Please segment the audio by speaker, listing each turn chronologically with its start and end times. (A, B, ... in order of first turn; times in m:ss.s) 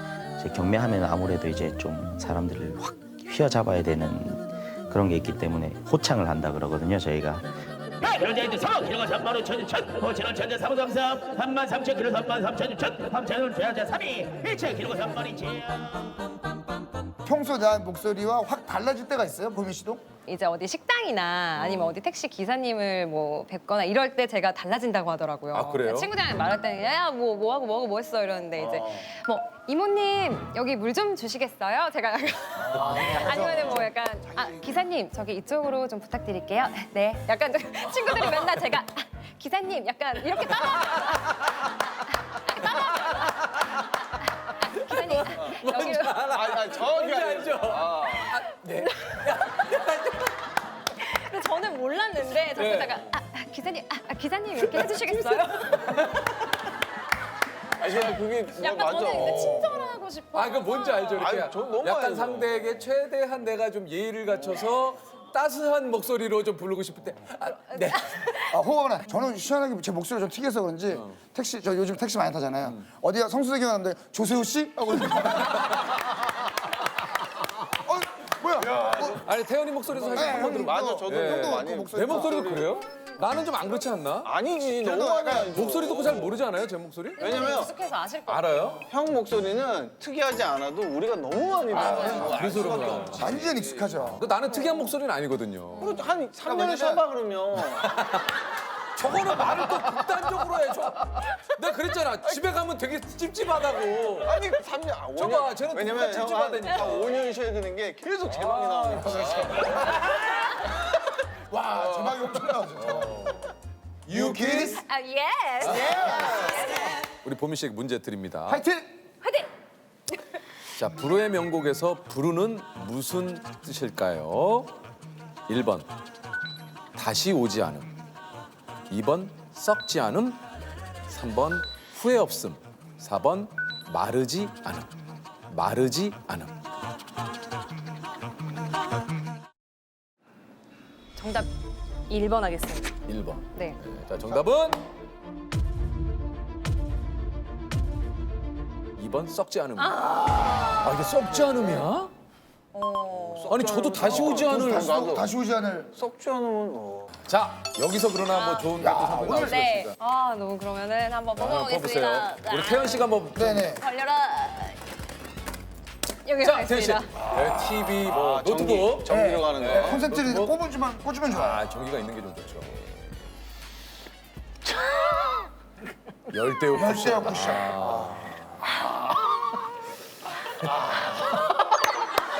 0:00.4-0:07.5 A
0:08.2-0:10.9 B
0:11.5-0:13.8 B
0:14.7-0:15.3 B
0:17.2-0:20.0 C
0:20.2-0:41.4 D
0:21.6-0:22.0 E
0:25.5-0:26.1 E
0:28.6-0:29.0 F
0:32.6-0:33.9 C
0:42.0-0:43.5 D
0:44.5-0:46.2 D
0:45.2-0:50.3 E
0:46.2-0:48.3 F
0:48.8-0:49.2 D
0:51.0-0:55.8 D
0:52.6-0:53.1 E
0:54.6-0:56.1 E
0:57.8-1:00.0 F
0:58.6-1:01.3 D
0:59.1-0:59.5 E
1:00.3-1:08.3 E
1:01.2-1:02.6 F
1:04.3-1:04.7 F
1:07.8-1:08.3 D
1:08.5-1:15.9 C
1:17.8-1:19.2 C
1:18.6-1:19.2 F
1:19.2-1:24.3 E
1:19.9-1:22.7 F
1:20.1-1:22.5 C
1:24.2-1:26.4 F
1:24.8-1:25.6 C
1:25.5-1:27.6 E
1:27.2-1:28.7 D
1:27.2-1:27.7 F
1:28.2-1:28.8 E
1:28.9-1:33.9 F
1:31.7-1:34.2 C
1:31.8-1:33.4 E
1:31.8-1:32.4 D
1:34.1-1:36.0 E
1:35.8-1:37.9 F
1:36.4-1:37.0 C
1:37.6-1:38.3 E
1:39.0-1:44.4 E
1:44.2-1:49.9 F
1:45.1-1:47.2 E
1:48.3-1:50.2 E
1:51.5-1:53.3 C
1:51.7-1:53.5 E
1:54.0-1:54.8 E
1:54.1-1:54.8 C
1:54.8-1:57.0 D
1:55.6-1:56.2 E
1:55.7-1:56.3 C
1:57.2-1:58.6 E
1:58.5-1:58.9 C
1:59.2-1:59.5 D
2:00.7-2:04.7 E
2:05.5-2:05.9 E
2:06.9-2:07.9 E
2:08.9-2:10.4 E
2:11.1-2:14.9 E
2:15.5-2:16.5 E
2:21.2-2:21.5 D
2:22.1-2:22.9 D
2:23.1-2:24.8 E
2:29.0-2:32.1 E
2:29.8-2:31.0 D
2:32.7-2:33.6 D
2:33.1-2:35.3 F
2:33.5-2:34.9 E
2:34.0-2:35.9 C
2:35.9-2:37.1 F
2:37.2-2:39.9 E
2:38.3-2:43.2 D
2:38.8-2:39.6 C
2:41.4-2:43.8 E
2:43.3-2:43.8 C
2:43.8-2:44.8 D
2:46.2-2:47.1 D
2:46.4-2:50.5 E
2:47.2-2:50.0 F
2:49.1-2:51.6 C
2:51.3-2:53.0 E
2:56.3-2:58.3 E
2:56.7-2:58.2 C
3:00.8-3:01.3 E